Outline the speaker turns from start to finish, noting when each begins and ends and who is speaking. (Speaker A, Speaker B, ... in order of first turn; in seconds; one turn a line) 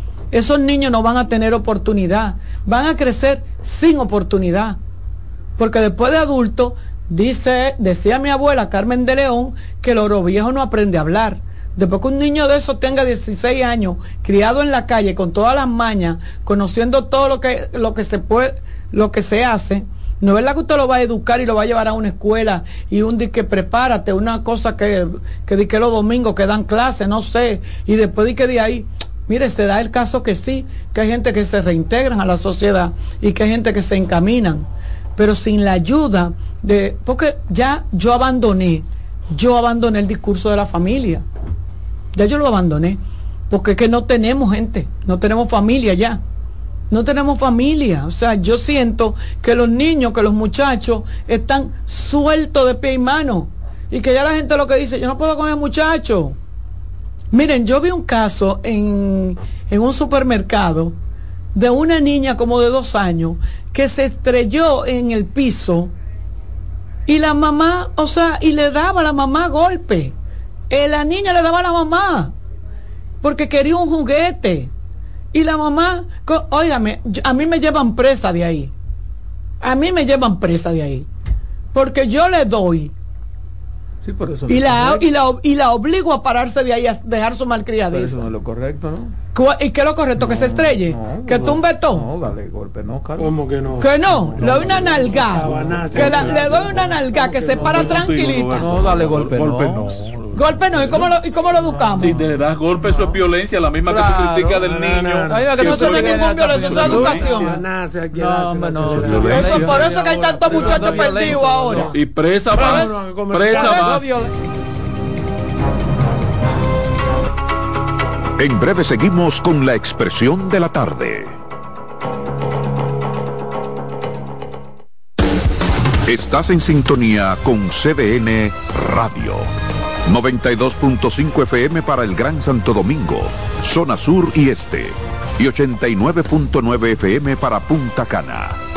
Speaker A: 0.3-4.8
Speaker A: 5.6-41.2
Speaker A: 42.1-46.2
Speaker A: 46.9-56.4
Speaker A: 57.3-60.9
Speaker A: 61.5-65.9
Speaker A: 67.1-70.1
Speaker A: 70.7-72.3
Speaker A: 73.2-74.7
Speaker A: 75.3-78.7
Speaker A: 79.6-81.1
Speaker A: 81.7-82.9
Speaker B: 84.0-85.1
Speaker A: 84.5-88.3
Speaker B: 87.9-89.1
Speaker A: 89.3-92.1
Speaker B: 90.2-93.3
Speaker C: 93.2-98.0
Speaker A: 93.8-98.6
Speaker B: 94.4-96.2
Speaker D: 97.6-101.1
Speaker B: 98.5-99.9
Speaker A: 100.3-102.2
Speaker B: 101.7-102.1
Speaker D: 102.0-107.5
Speaker B: 102.9-103.2
Speaker B: 103.9-104.7
Speaker C: 104.6-105.7
Speaker B: 105.3-107.4
Speaker A: 105.6-107.6
Speaker C: 106.9-109.6
Speaker B: 108.1-111.9
Speaker D: 108.9-109.8
Speaker A: 109.3-111.9
Speaker D: 111.9-114.1
Speaker C: 112.5-114.1
Speaker B: 112.6-112.9
Speaker B: 113.5-114.3
Speaker E: 118.4-121.4
Speaker E: 126.1-129.5
Speaker E: 130.1-138.6